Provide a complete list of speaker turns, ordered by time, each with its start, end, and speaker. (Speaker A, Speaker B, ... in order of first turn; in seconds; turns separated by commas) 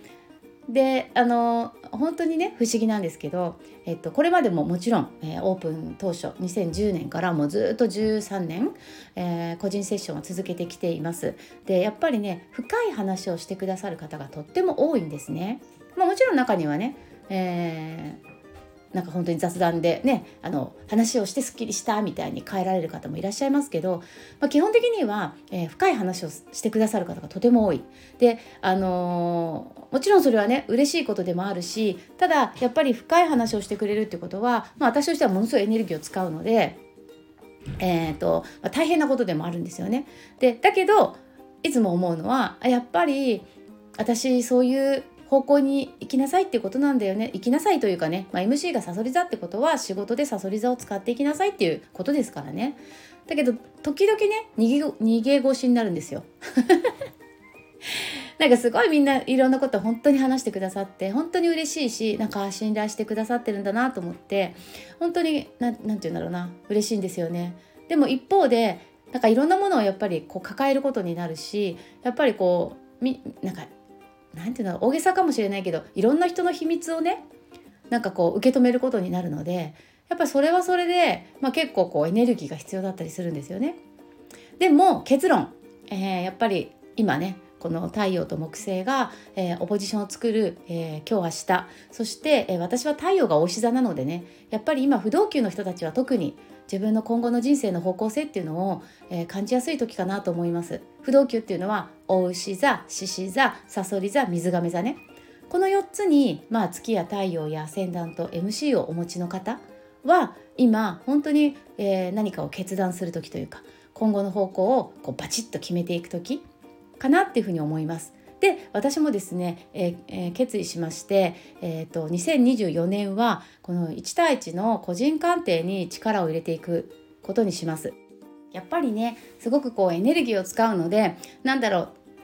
Speaker A: 0.7-18.2, Speaker A: 18.9-36.8, Speaker A: 37.8-43.5, Speaker A: 44.0-56.9, Speaker A: 58.4-73.7, Speaker A: 74.3-77.2, Speaker A: 77.9-83.8, Speaker A: 84.6-116.4, Speaker A: 117.0-127.9, Speaker A: 128.5-131.9